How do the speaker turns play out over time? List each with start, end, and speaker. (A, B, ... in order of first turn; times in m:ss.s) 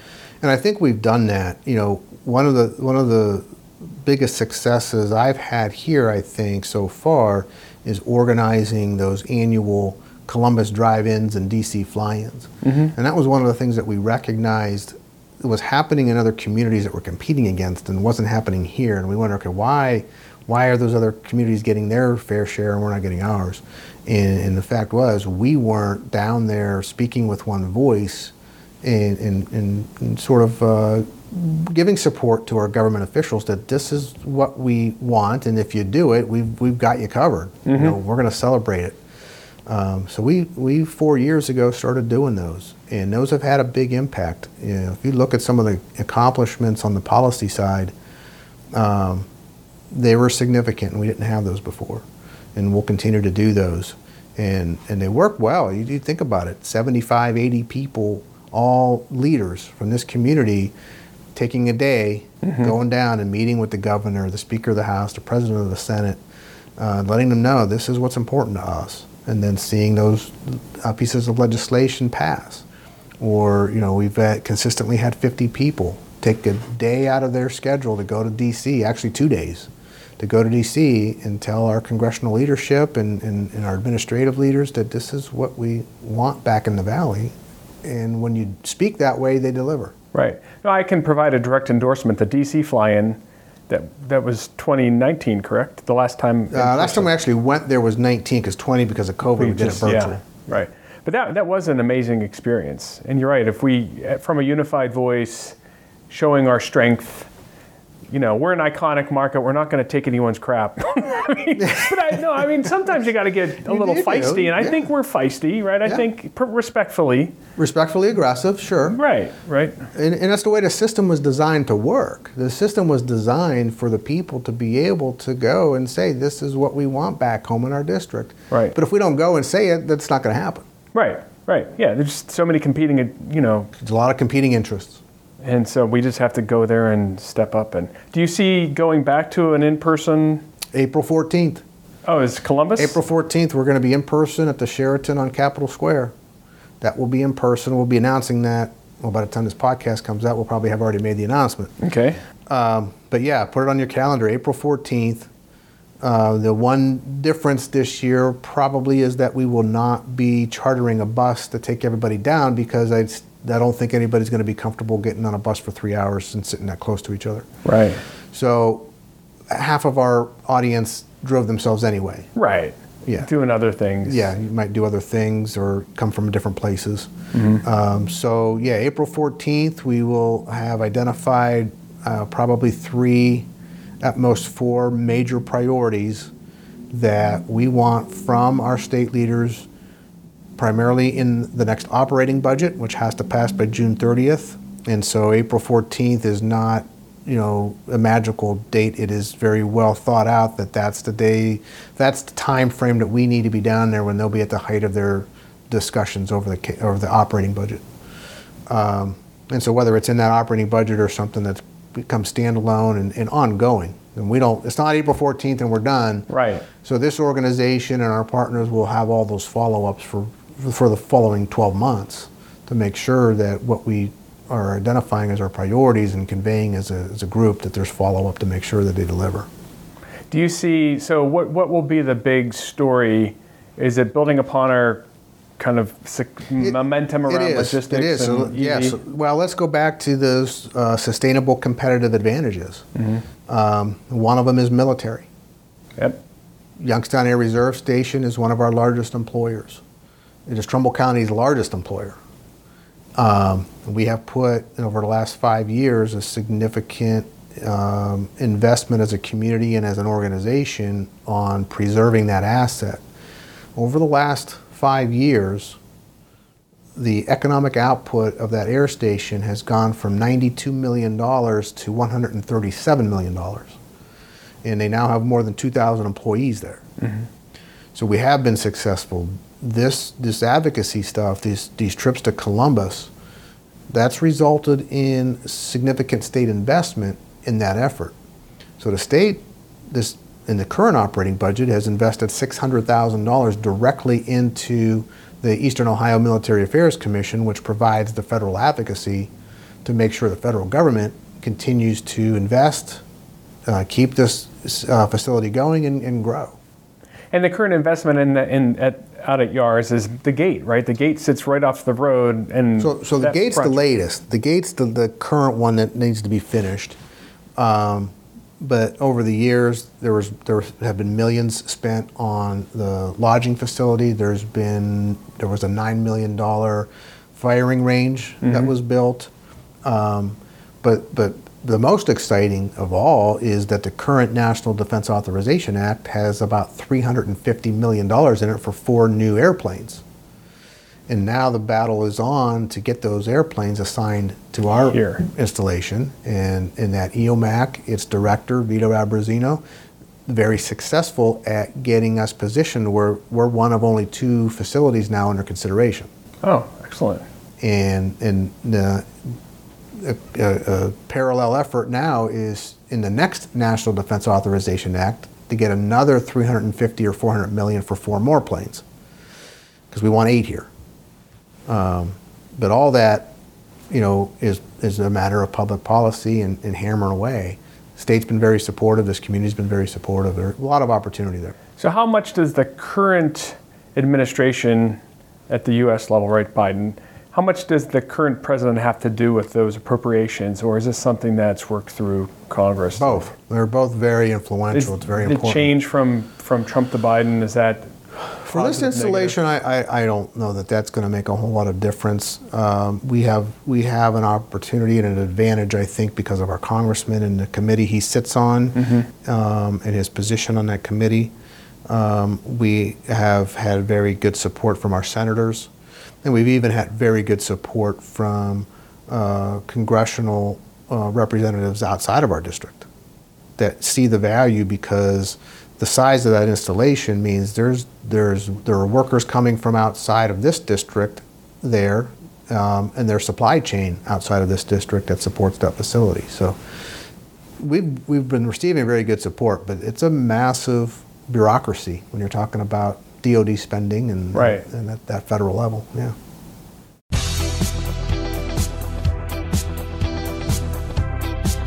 0:00.4-0:39.0 A
0:12.6-0:12.9 B
0:37.6-0:38.0 B
0:39.7-0:47.9 A
0:48.7-0:49.3 A
0:49.9-1:00.7 A
1:01.3-1:06.2 A
1:02.4-1:02.7 B
1:06.8-1:12.6 A
1:13.2-1:29.9 A
1:30.1-1:37.1 B
1:36.5-1:40.2 A
1:39.4-1:45.6 B
1:46.1-1:47.3 B
1:48.1-1:57.3 B
1:51.6-1:52.2 A
1:53.6-1:54.8 A
1:57.6-1:59.0 A
1:58.9-1:59.9 B
1:59.9-2:10.6 A
2:08.5-2:08.8 B
2:10.9-2:13.7 B
2:13.8-2:15.0 A
2:15.4-2:20.4 B
2:20.7-2:21.6 A
2:22.0-2:23.0 B
2:22.8-2:26.1 A
2:26.8-2:31.7 A
2:31.8-2:32.2 B
2:32.4-2:35.3 A
2:36.0-2:47.5 A
2:47.6-2:48.0 B
2:48.3-2:48.9 A
2:49.5-2:52.3 A
2:52.3-2:54.3 B
2:54.0-2:57.1 A
2:57.3-2:57.6 B
2:57.6-3:03.5 A
3:04.0-3:06.3 A
3:06.9-3:09.7 A
3:10.6-3:27.8 A
3:28.7-3:49.5 A
3:36.3-3:36.6 B
3:50.3-3:55.0 B
3:55.6-3:59.0 B
3:56.6-4:02.8 A
4:03.0-4:03.2 B
4:03.5-4:05.3 A
4:06.8-4:09.8 A
4:10.5-4:12.2 A
4:13.2-4:23.0 A
4:23.8-4:25.8 A
4:27.0-4:33.8 A
4:34.6-4:36.8 A
4:37.0-4:37.3 B
4:37.9-4:43.1 A
4:43.9-4:48.1 A
4:48.8-4:59.3 A
4:59.8-5:03.0 A
5:03.6-5:06.6 A
5:07.3-5:13.8 B
5:12.8-5:17.0 A
5:17.6-5:29.3 A
5:28.4-5:28.7 B
5:29.8-5:40.0 A
5:41.1-5:49.6 A
5:44.9-5:45.2 B
5:50.3-5:56.1 A
5:56.4-5:57.2 B
5:57.6-5:59.1 A
5:59.9-6:08.8 A
6:09.9-6:10.7 A
6:11.7-6:13.3 A
6:13.9-6:21.6 A
6:21.8-6:33.3 B
6:33.0-6:35.7 A
6:34.7-6:39.4 B
6:38.4-6:51.3 A
6:48.7-6:49.1 B
6:51.9-6:55.7 A
6:56.2-7:02.9 A
7:03.6-7:16.6 A
7:17.6-7:26.2 A
7:24.3-7:24.6 B